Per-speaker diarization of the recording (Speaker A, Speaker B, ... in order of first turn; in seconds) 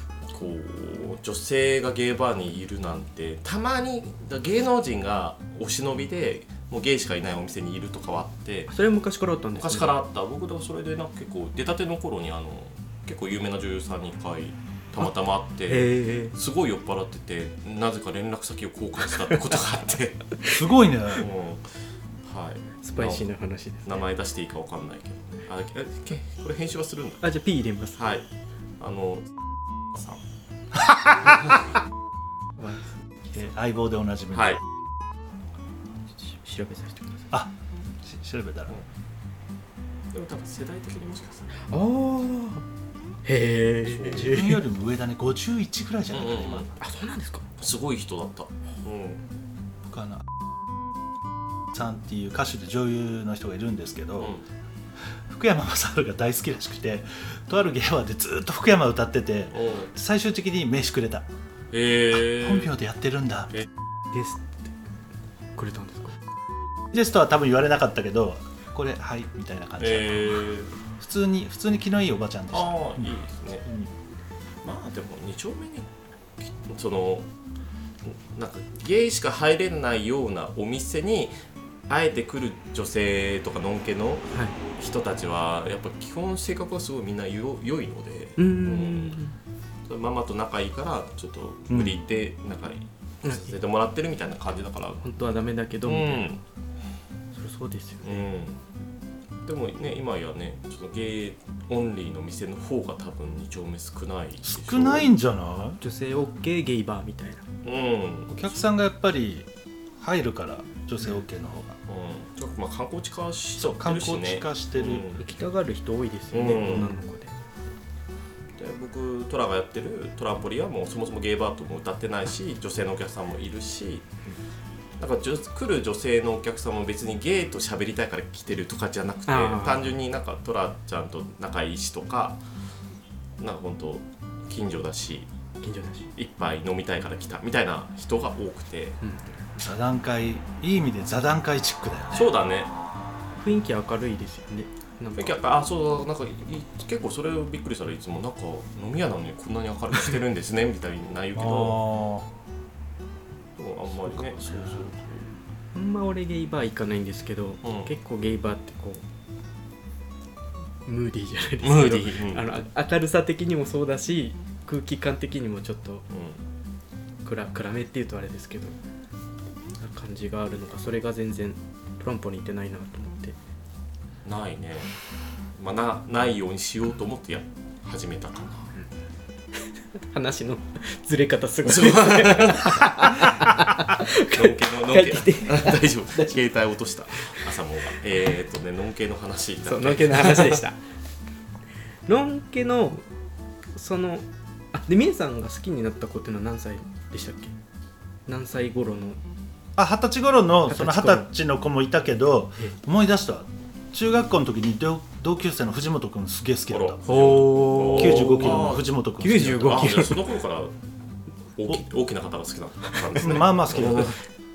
Speaker A: 0.3-8.7, 9.5-20.3, 21.1-23.3, 23.8-27.3, 27.9-28.2, 28.8-29.3, 29.9-30.2, 34.3-34.6, 40.1-41.5, 43.9-44.4, 46.1-46.7, 47.6-49.2, 59.5-59.9, 61.7-62.7, 69.8-70.7, 72.5-73.7, 74.6-75.8, 76.4-77.3, 78.0-81.3, 81.9-89.2, 89.9-95.0, 95.8-96.4, 98.0-98.6, 99.4-105.1, 107.6-108.4, 111.9-115.2, 116.3-117.0, 118.6-124.1, 125.0-132.4, 133.4-135.3, 136.1-139.0, 142.1-142.7, 145.2-151.8, 153.6-155.3, 157.6-157.9, 161.6-162.4, 166.1-166.4, 174.2-174.9, 175.5-178.7, 181.7-182.9, 184.3-190.6, 206.7-208.9, 209.6-210.7, 211.6-214.2
Speaker B: 8.7-9.9, 15.7-16.4, 22.8-24.0, 27.2-28.0, 32.6-33.0, 36.2-37.3, 41.7-42.6, 43.2-44.6, 46.8-47.5, 64.1-64.7, 65.5-66.2, 88.4-89.3, 93.2-93.5, 95.0-96.3, 97.3-98.3, 105.8-107.4, 115.2-117.3, 129.3-129.8, 135.6-136.1, 139.0-139.4, 143.4-145.3, 155.7-159.0, 160.8-166.0, 167.2-168.8, 169.8-173.3, 179.6-186.4, 187.2-187.5, 189.6-190.8, 192.1-193.0, 193.7-197.5, 198.3-199.2, 200.7-201.3, 207.1-210.3, 212.9-214.1
Speaker C: 20.5-21.3, 30.7-31.4, 33.3-34.6, 37.3-38.7, 44.1-46.7, 49.9-50.2, 51.7-54.4, 55.3-61.3, 62.1-63.5, 66.9-73.1, 91.7-92.0, 104.4-105.8, 108.3-109.5, 110.0-111.8, 113.6-115.1, 139.6-142.3, 151.3-152.3, 154.1-154.9, 199.8-210.0, 213.2-214.2